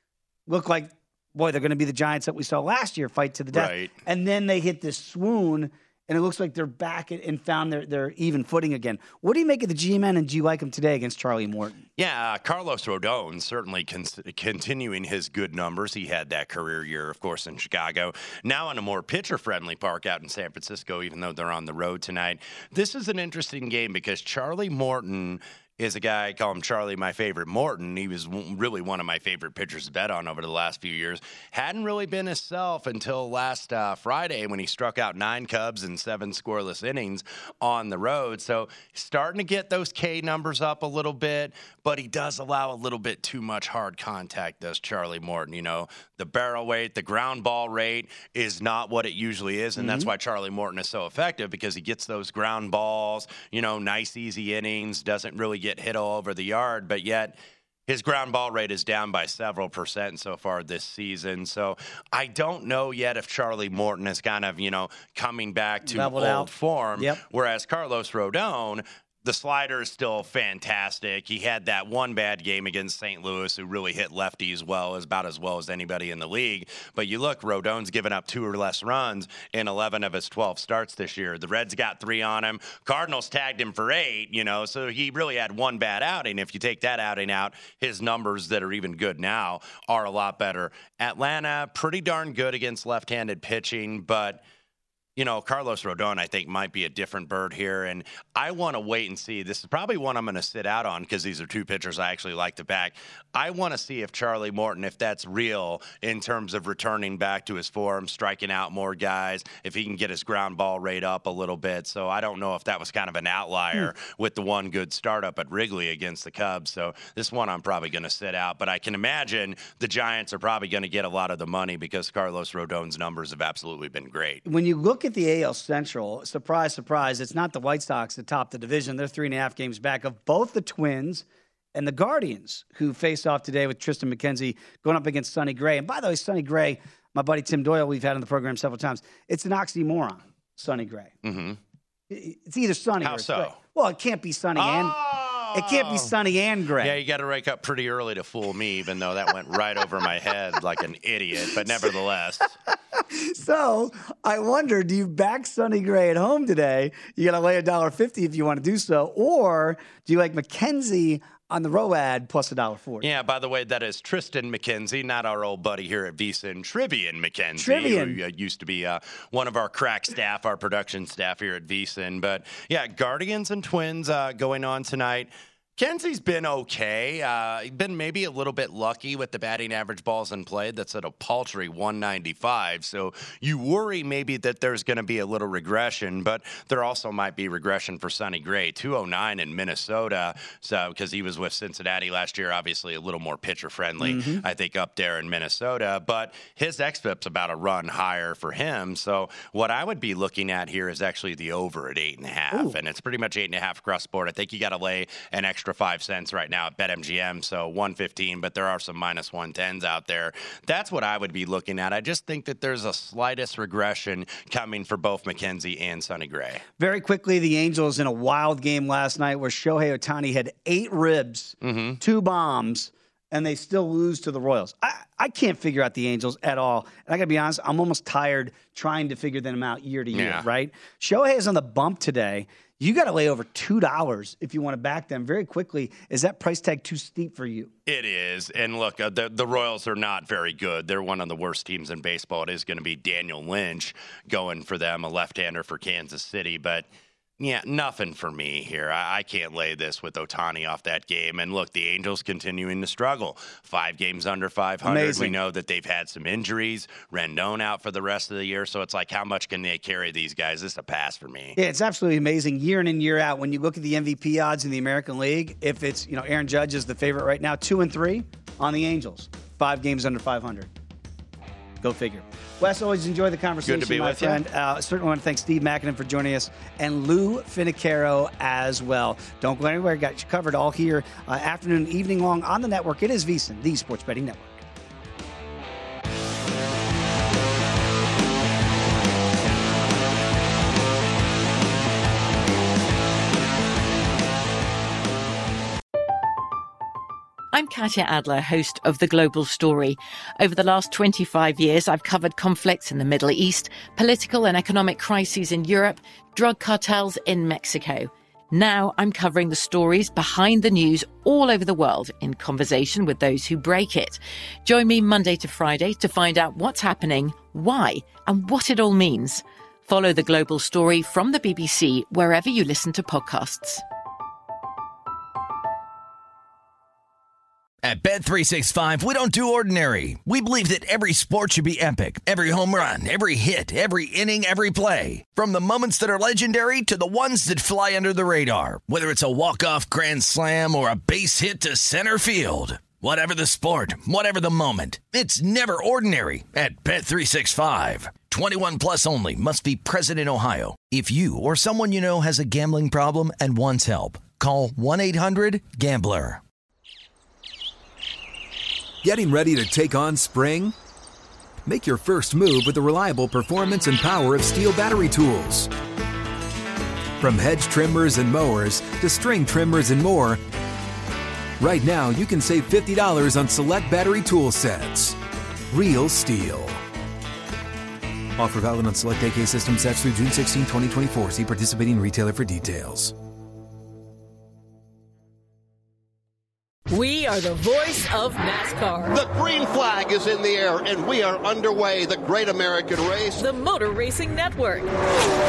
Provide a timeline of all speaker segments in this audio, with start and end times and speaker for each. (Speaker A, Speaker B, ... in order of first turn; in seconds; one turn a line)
Speaker A: 0.5-11.8
Speaker B: 3.5-3.9
Speaker B: 12.0-57.4
Speaker A: 49.8-50.1
Speaker B: 57.9-94.4
Speaker A: 65.9-67.2
Speaker B: 95.2-124.4
Speaker A: 124.5-141.2
Speaker B: 141.2-141.6
Speaker A: 142.1-145.0
Speaker B: 143.0-143.6
Speaker B: 144.6-146.1
Speaker A: 145.5-147.0
Speaker B: 146.8-152.5
Speaker A: 153.1-163.1
Speaker B: 163.0-216.6
Speaker A: 167.6-168.2
Speaker A: 194.0-194.4
Speaker A: 202.5-202.8
Speaker A: 216.8-237.7
Speaker B: 221.6-222.0
Speaker B: 230.1-230.5
Speaker B: 237.9-246.9
Speaker B: 247.4-261.6
Speaker A: 254.8-255.4
Speaker A: 261.6-270.7
Speaker A: 271.8-284.6
Speaker B: 273.6-274.4
Speaker C: 297.5-323.8
Speaker D: 327.8-356.4
Speaker E: 359.0-360.7
Speaker E: 361.7-365.7
Speaker E: 367.2-370.4
Speaker E: 371.6-375.2
Speaker E: 375.7-376.8
Speaker E: 378.4-383.1
Speaker F: 386.9-389.2
Speaker G: 389.1-393.4
Speaker F: 393.4-394.9